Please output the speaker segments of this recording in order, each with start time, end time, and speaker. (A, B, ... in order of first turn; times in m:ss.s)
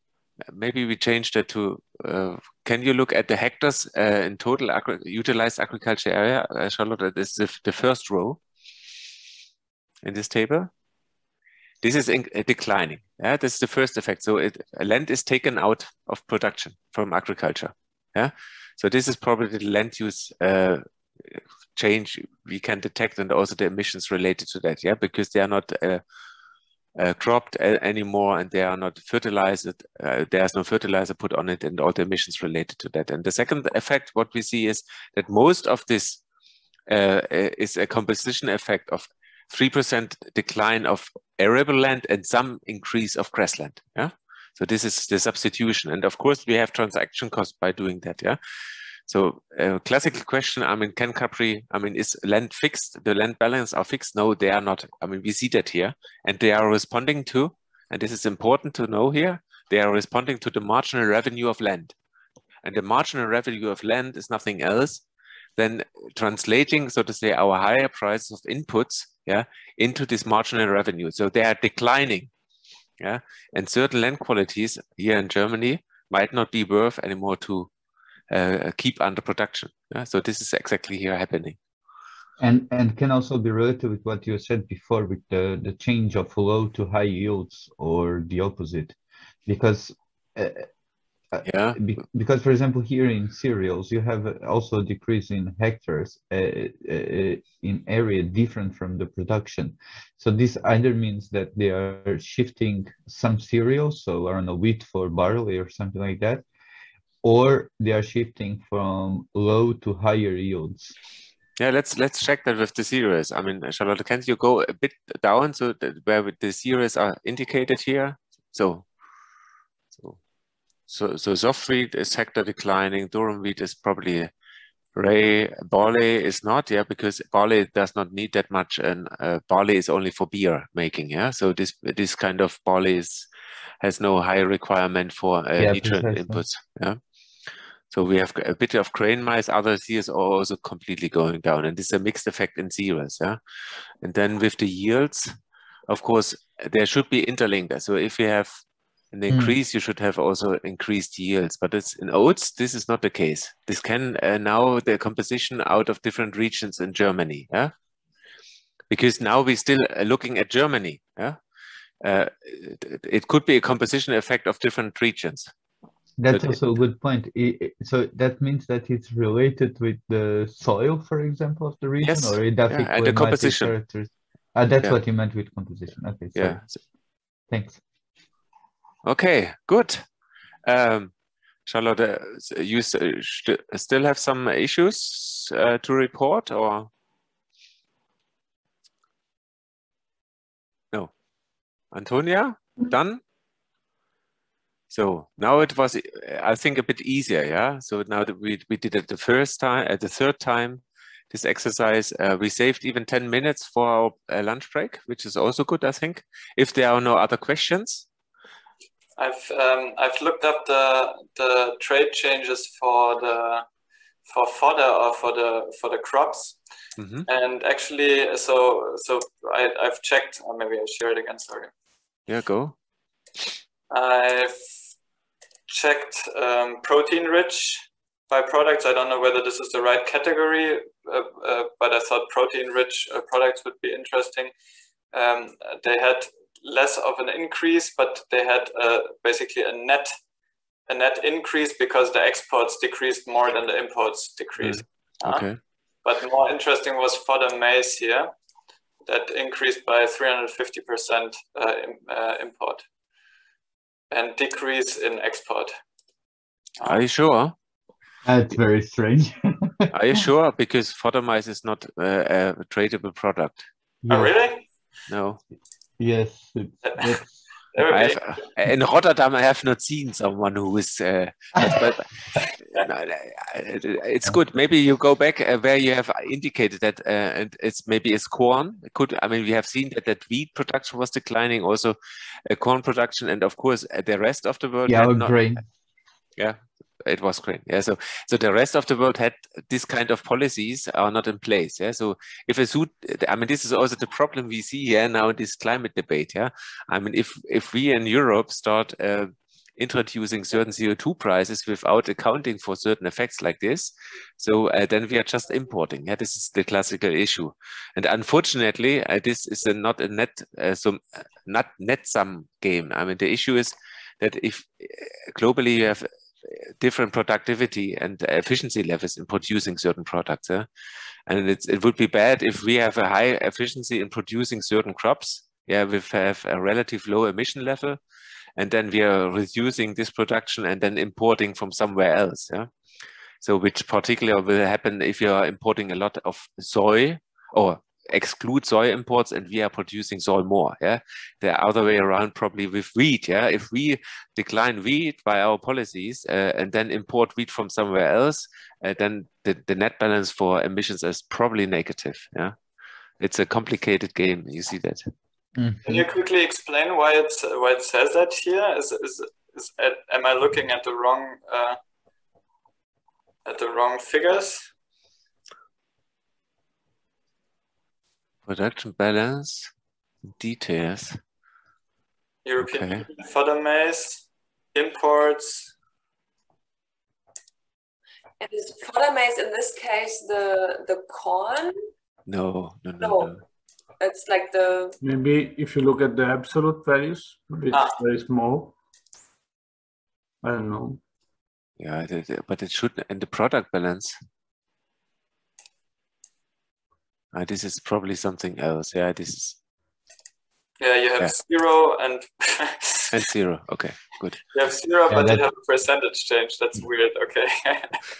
0:00.5-0:08.4 A
0:10.0-0:10.7 A
0:11.8-0:26.0 A
0:27.0-0:36.2 A
0:36.9-0:48.4 A
0:49.1-1:02.0 A
1:02.6-1:05.0 A
1:05.6-1:12.3 A
1:13.0-1:17.7 A
1:18.3-1:21.6 A
1:22.4-1:30.7 B
1:31.3-1:46.4 B
1:31.4-1:31.8 A
1:47.2-1:51.0 B
1:51.6-1:58.9 A
1:59.9-2:00.2 A
2:00.9-2:04.3 A
2:05.0-2:13.3 A
2:13.8-2:17.0 A
2:15.6-2:16.4 B
2:17.9-2:23.4 A
2:24.0-2:25.4 A
2:25.9-2:37.7 A
2:29.3-2:29.6 B
2:38.9-2:41.4 A
2:42.0-2:45.5 A
2:46.2-2:56.6 B
2:46.3-2:46.6 A
2:52.0-2:53.7 A
2:56.4-2:56.8 A
2:57.5-2:57.8 B
2:59.1-3:00.0 A
3:00.7-3:01.1 A
3:01.7-3:06.9 A
3:11.9-3:13.2 A
3:14.9-3:28.1 A
3:29.2-3:33.7 C
3:34.3-3:36.6 C
3:37.0-3:37.3 A
3:37.3-3:41.7 C
3:42.3-3:42.8 A
3:43.9-3:44.7 C
3:45.7-3:54.5 C
3:55.1-4:00.1 C
4:00.9-4:05.5 C
4:04.6-4:05.6 A
4:06.0-4:08.3 C
4:09.1-4:12.8 C
4:14.1-4:15.7 C
4:16.8-4:17.5 A
4:18.2-4:20.2 B
4:19.9-4:23.7 A
4:24.0-4:24.3 B
4:24.1-4:24.7 C
4:25.1-4:25.4 A
4:26.0-4:27.3 B
4:26.8-4:27.2 C
4:27.7-4:28.2 C
4:27.8-4:32.1 A
4:32.6-4:42.0 A
4:42.5-4:45.4 A
4:44.9-4:45.6 B
4:46.4-5:20.7 A
5:21.3-5:28.0 A
5:28.6-5:32.7 A
5:33.4-5:52.6 A
5:53.2-5:55.0 A
5:55.6-5:56.1 B
5:55.9-6:01.8 C
6:03.4-6:04.7 C
6:08.5-6:09.7 A
6:10.3-6:11.2 A
6:12.4-6:15.7 C
6:12.6-6:13.1 A
6:18.4-6:21.9 D
6:22.3-6:23.4 A
6:23.0-6:23.4 D
6:24.0-6:25.0 D
6:25.0-6:28.8 E
6:27.7-6:28.0 C
6:30.4-6:31.0 E
6:31.8-6:34.1 A
6:37.3-6:39.6 A
6:40.8-6:43.1 C
6:43.1-6:44.4 A
6:44.5-6:48.1 C
6:45.1-6:45.4 B